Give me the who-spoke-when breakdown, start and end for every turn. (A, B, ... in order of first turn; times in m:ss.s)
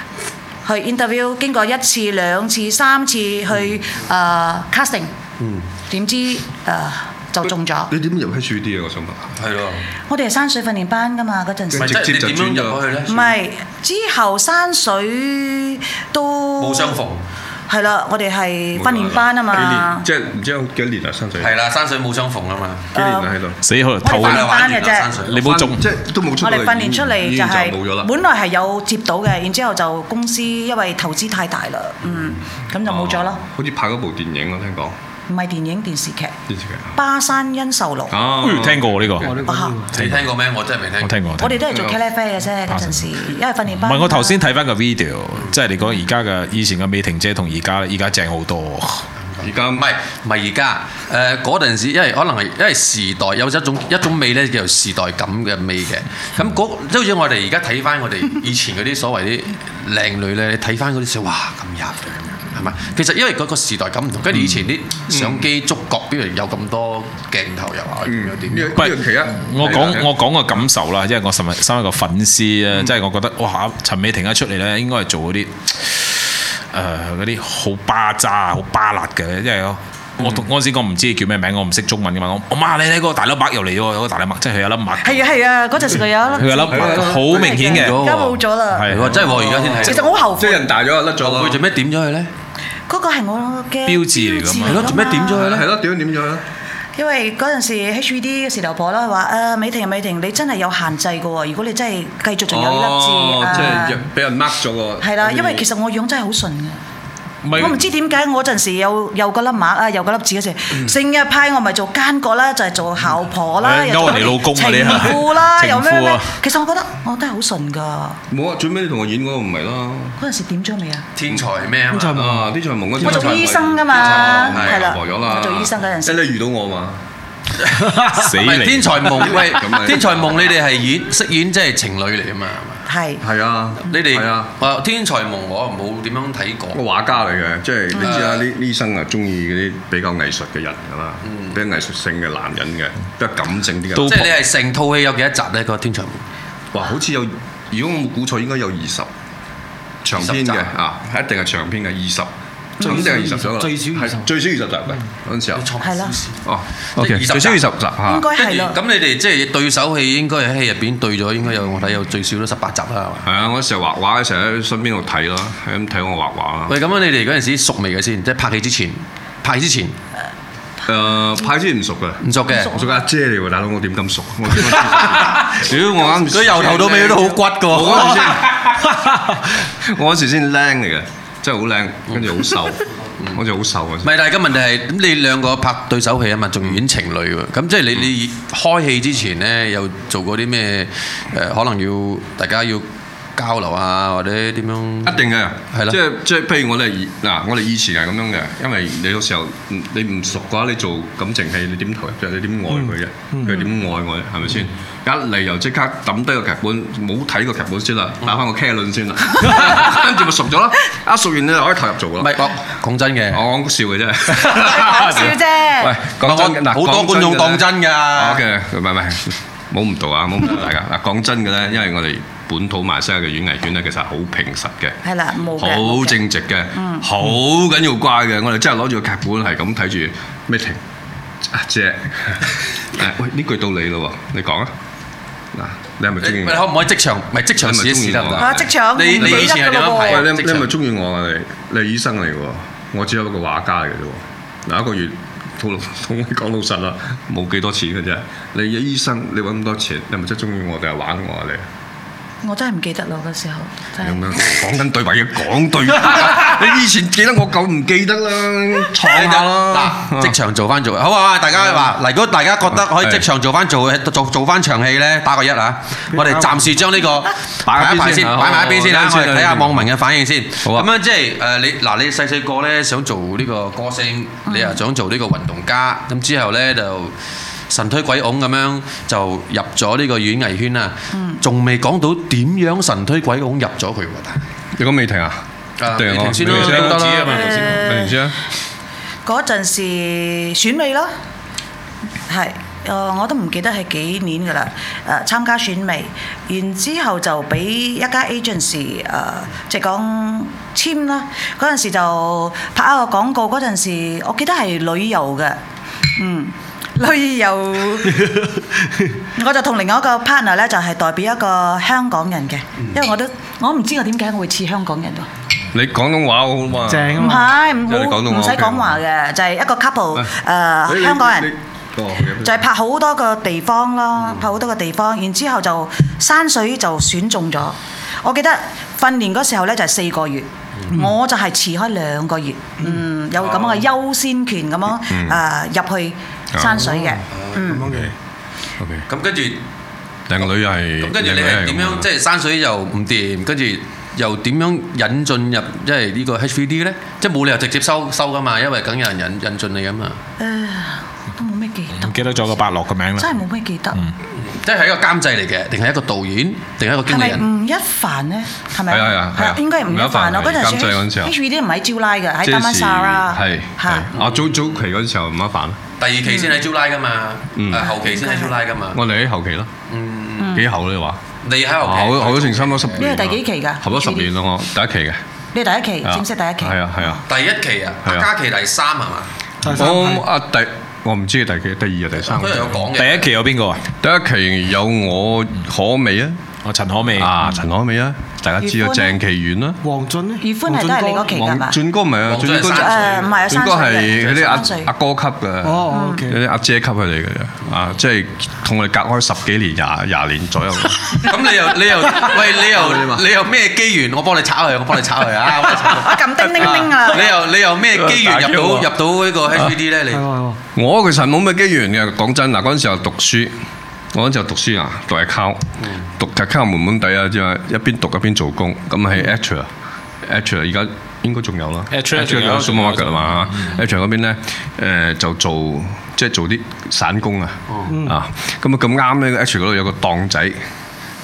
0:00.6-0:05.1 A
0:05.4-0:05.7 B
0:05.9-0:07.9 A
0:07.5-0:09.4 C
0:09.4-0:09.8 B
0:10.1-0:12.0 A
0:11.7-0:12.8 C
0:11.8-0:13.4 B
0:13.1-0:17.0 A
0:16.6-0:17.2 B
0:17.7-0:20.1 A
0:18.7-0:21.6 C
0:21.4-0:22.9 B
0:22.9-0:23.3 A
0:22.9-0:23.6 C
0:23.6-0:25.9 D
0:24.0-0:25.1 A
0:24.2-0:25.5 B
0:25.3-0:28.1 C
0:26.4-0:33.4 A
0:32.8-0:35.0 C
0:35.3-0:36.4 A
0:36.5-0:37.0 C
0:36.9-0:38.2 A
0:38.1-0:39.3 C
0:38.4-0:39.4 D
0:39.2-0:39.9 E
0:39.5-0:39.8 A
0:39.9-0:41.2 B
0:39.9-0:40.3 D
0:41.0-0:41.6 D
0:41.4-0:44.4 A
0:41.7-0:42.0 C
0:42.7-0:43.2 D
0:43.7-0:49.0 D
0:49.4-1:08.7 B
0:49.4-0:49.9 C
1:05.1-1:05.5 C
1:08.0-1:10.1 C
1:08.8-1:25.3 D
1:25.0-1:29.0 A
1:26.4-1:28.1 D
1:26.7-1:27.5 C
1:27.6-1:30.1 B
1:28.7-1:29.4 D
1:29.3-1:31.6 C
1:29.8-1:30.6 A
1:31.2-1:32.3 B
1:32.9-1:35.4 A
1:33.9-1:35.1 D
1:34.6-1:35.7 B
1:35.3-1:36.4 C
1:37.0-1:44.0 A
1:42.5-1:45.7 C
1:45.0-1:46.8 A
1:47.4-1:47.8 D
1:47.5-1:58.2 A
1:53.6-1:56.3 D
1:58.3-2:00.2 C
2:00.2-2:01.0 A
2:01.2-2:02.3 B
2:01.9-2:02.4 E
2:02.1-2:07.0 C
2:03.0-2:04.9 B
2:03.0-2:06.3 A
2:07.9-2:08.2 E
2:08.2-2:09.4 D
2:08.4-2:12.8 B
2:09.1-2:10.6 C
2:12.9-2:13.2 A
2:13.2-2:14.5 C
2:13.9-2:16.8 B
2:16.7-2:24.3 C
2:18.0-2:18.4 B
2:21.2-2:21.6 B
2:24.0-2:24.3 D
2:24.0-2:26.2 B
2:26.7-2:29.1 C
2:30.0-2:35.7 C
2:30.1-2:30.7 B
2:32.8-2:33.1 A
2:32.8-2:34.2 E
2:35.6-2:36.4 B
2:35.8-2:36.2 A
2:36.4-2:38.3 C
2:37.0-2:37.6 B
2:38.1-2:38.8 A
2:38.3-2:43.3 B
2:43.2-2:46.8 C
2:46.7-2:50.0 B
2:50.9-3:04.2 C
2:52.2-2:52.7 B
2:52.5-2:52.9 A
2:56.2-2:58.4 B
3:02.1-3:02.5 B
3:04.0-3:15.2 B
3:15.0-3:32.5 C
3:15.7-3:16.0 B
3:22.8-3:23.5 E
3:32.2-3:33.4 B
3:33.3-3:45.0 C
3:34.5-3:36.0 A
3:36.2-3:38.4 B
3:45.0-3:46.2 A
3:45.6-3:50.8 C
3:46.8-3:47.1 A
3:51.4-3:54.7 C
3:55.5-3:56.7 C
3:56.2-4:00.7 B
3:57.6-4:11.7 C
3:58.4-4:00.3 A
4:12.4-4:14.3 A
4:14.0-4:20.4 C
4:19.0-4:37.2 B
4:22.7-4:23.3 C
4:26.1-4:26.6 E
4:27.6-4:29.9 C
4:30.6-4:30.9 C
4:34.5-4:34.8 A
4:37.7-4:44.4 B
4:41.1-4:41.4 A
4:44.8-4:48.4 C
4:45.8-4:47.6 B
4:46.4-4:47.8 D
4:47.2-4:48.2 A
4:49.2-4:51.1 A
4:52.3-5:05.6 A
5:06.2-5:08.3 A
5:08.2-5:08.6 E
5:09.4-5:15.3 A
5:15.7-5:19.0 C
5:16.9-5:17.5 E
5:17.2-5:21.5 A
5:20.9-5:22.6 C
5:22.4-5:37.9 A
5:33.4-5:33.9 B
5:35.1-5:35.4 C
5:36.5-5:36.9 C
5:36.9-5:38.1 E
5:37.3-5:37.8 B
5:37.8-5:38.1 C
5:38.8-5:39.1 C
5:39.1-5:39.6 B
5:40.3-5:42.1 C
5:41.0-5:50.2 B
5:50.4-5:52.5 A
5:52.0-5:53.4 D
5:53.2-5:54.0 A
5:54.3-5:57.4 B
5:57.1-6:04.1 A
5:58.9-6:01.4 C
6:02.4-6:05.8 C
6:04.1-6:04.9 B
6:06.0-6:09.0 B
6:06.3-6:06.6 A
6:07.6-6:07.9 C
6:07.9-6:08.6 A
6:08.9-6:09.7 C
6:09.9-6:10.6 B
6:10.4-6:10.7 A
6:10.5-6:11.2 C
6:11.4-6:13.1 B
6:11.8-6:15.2 C
6:13.0-6:14.3 A
6:15.5-6:17.2 A
6:16.0-6:17.2 C
6:17.3-6:19.3 B
6:19.6-6:20.2 E
6:19.7-6:22.8 C
6:22.2-6:23.3 B
6:23.0-6:23.8 D
6:24.0-6:26.4 C
6:26.6-6:27.4 D
6:27.1-6:29.8 C
6:28.6-6:29.2 A
6:29.8-6:31.3 E
6:30.4-6:31.8 A
6:31.3-6:41.4 C
6:32.2-6:33.6 B
6:32.6-6:34.9 A
6:34.1-6:34.6 B
6:35.6-6:36.4 E
6:35.9-6:36.2 A
6:41.2-6:50.3 B
6:42.4-6:43.2 C
6:45.9-6:47.4 A
6:46.5-6:46.9 C
6:47.9-6:49.0 C
6:49.5-6:49.8 C
6:50.1-6:50.6 E
6:50.8-6:53.6 C
6:54.1-6:59.7 C
6:55.8-6:56.1 B
7:00.2-7:10.6 C
7:01.9-7:03.8 D
7:07.7-7:08.0 B